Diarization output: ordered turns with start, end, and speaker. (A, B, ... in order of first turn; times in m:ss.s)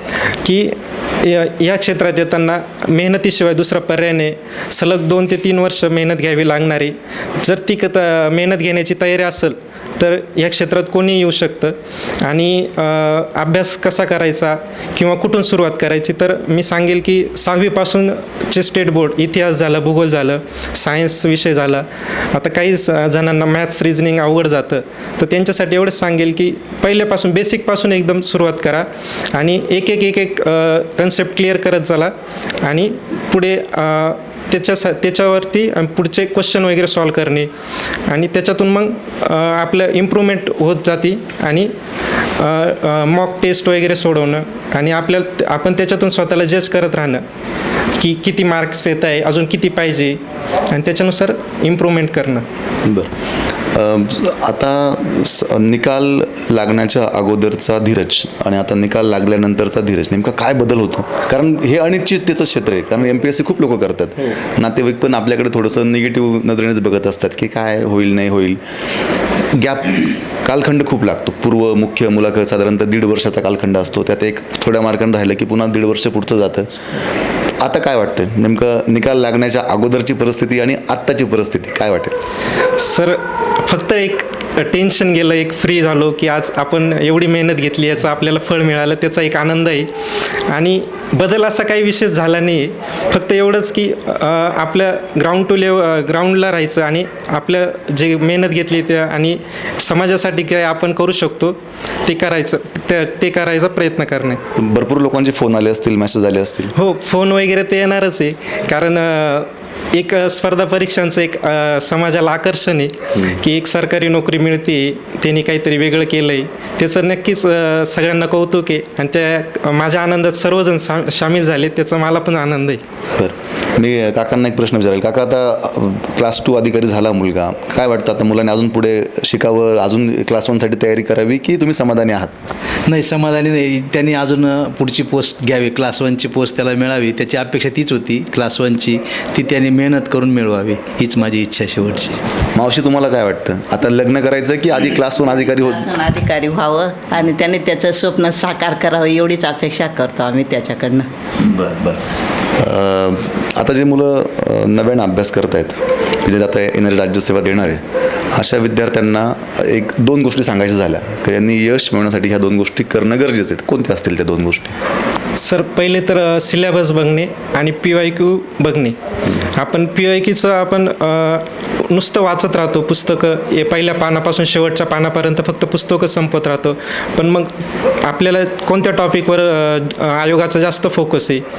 0:00.4-0:37.5 A
0:38.1-0:41.7 A
0:42.4-0:47.2 A
0:48.0-0:52.4 A
0:52.8-0:53.1 B
0:53.7-1:08.6 B
1:09.5-1:16.7 B
1:17.6-1:22.2 B
1:22.8-1:29.9 A
1:30.5-1:44.4 A
1:44.6-1:46.7 B
1:46.8-2:02.8 A
2:03.2-2:12.3 B
2:12.9-2:22.2 C
2:22.5-2:25.9 B
2:25.4-2:31.1 D
2:31.4-2:44.8 B
2:45.4-2:57.5 A
2:58.0-3:01.4 A